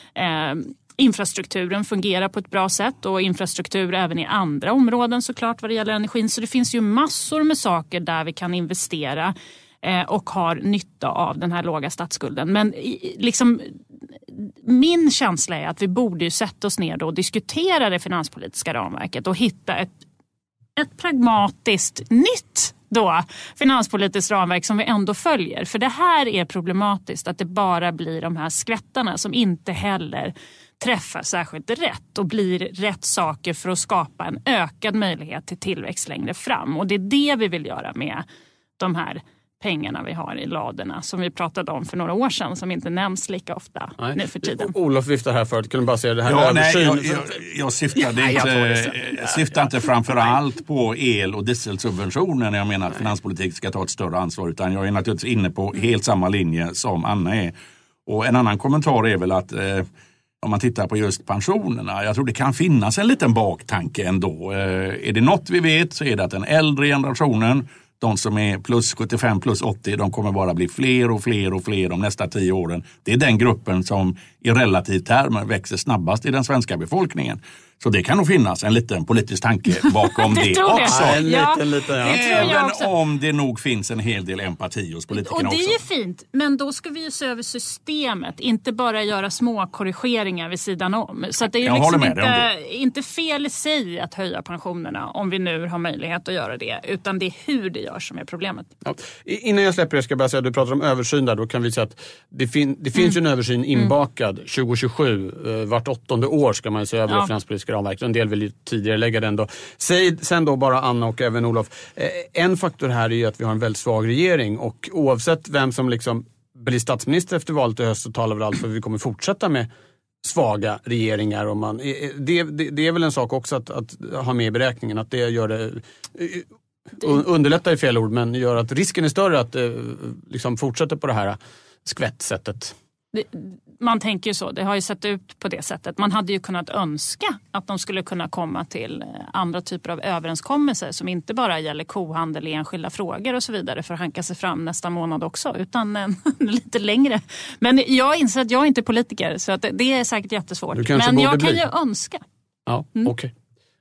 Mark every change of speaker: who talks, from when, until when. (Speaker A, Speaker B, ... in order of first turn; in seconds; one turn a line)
Speaker A: 0.1-13.8
Speaker A: 14.3-20.0
Speaker A: 20.8-38.2
Speaker A: 38.8-44.7
Speaker B: 44.0-47.4
Speaker C: 46.3-57.5
Speaker B: 48.0-49.6
Speaker C: 58.0-59.9
Speaker C: 60.4-81.2
Speaker A: 80.3-82.9
Speaker B: 80.7-82.5
Speaker C: 82.0-85.8
Speaker A: 85.1-98.7
Speaker C: 91.6-92.5
Speaker B: 98.8-119.7
Speaker B: 120.2-132.8
Speaker A: 133.1-152.2
Speaker B: 150.7-151.6
Speaker B: 152.7-153.3